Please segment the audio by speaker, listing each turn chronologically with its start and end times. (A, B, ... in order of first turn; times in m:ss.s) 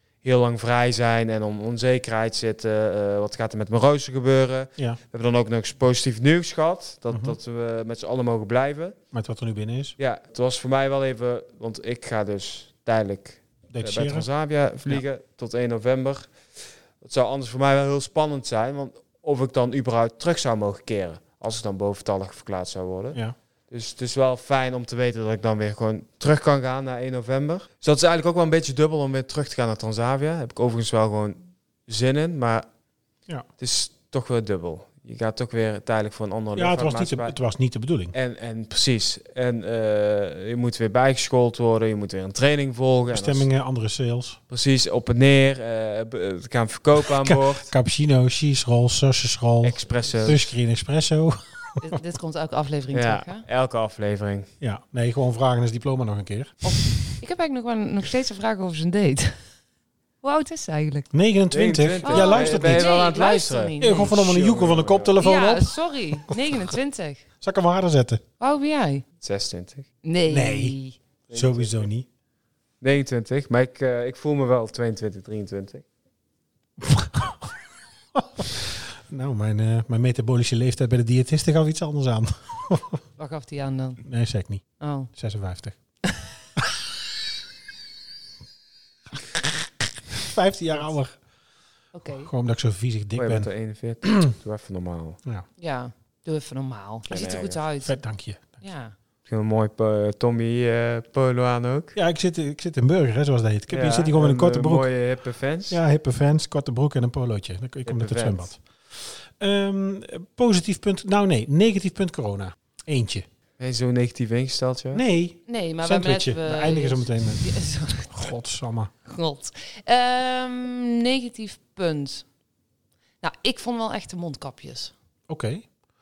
0:00.2-0:09.0 A
0:07.1-0:07.4 B
0:09.1-0:10.0 B
0:10.0-0:16.4 A
0:13.7-0:14.3 B
0:17.0-0:23.2 A
0:23.7-0:32.7 A
0:33.6-0:37.3 A
0:36.6-0:38.1 B
0:38.1-0:43.5 A
0:43.1-0:44.4 B
0:44.5-0:47.7 A
0:47.0-0:52.0 B
0:49.6-0:50.5 A
0:51.8-0:53.4 C
0:52.9-0:54.5 A
0:54.6-0:57.0 B
0:56.6-0:59.4 C
1:00.2-1:01.1 C
1:01.1-1:02.9 B
1:01.5-1:05.2 A
1:02.0-1:04.2 C
1:03.8-1:05.8 B
1:05.2-1:07.3 C
1:07.4-1:08.2 B
1:08.4-1:09.0 C
1:09.2-1:09.9 A
1:10.0-1:11.0 C
1:10.3-1:10.8 B
1:11.3-1:11.9 A
1:11.3-1:12.1 B
1:12.8-1:15.8 A
1:16.8-1:17.5 B
1:18.1-1:23.0 B
1:23.2-1:24.0 C
1:24.0-1:24.6 B
1:24.8-1:25.1 C
1:25.1-1:25.8 B
1:30.1-1:31.2 B
1:31.9-1:32.3 C
1:32.1-1:33.5 B
1:33.2-1:35.2 A
1:34.1-1:34.3 B
1:35.6-1:38.0 C
1:37.1-1:37.6 A
1:37.8-1:38.6 B
1:38.6-1:38.9 C
1:39.2-1:42.0 A
1:42.0-1:44.9 B
1:43.7-1:45.8 A
1:45.7-1:53.2 B
1:47.8-1:48.5 A
1:53.6-1:55.0 A
1:54.9-1:57.4 B
1:55.5-1:58.3 C
1:58.1-1:58.9 B
1:59.0-2:02.2 C
2:03.2-2:04.9 C
2:05.3-2:05.7 B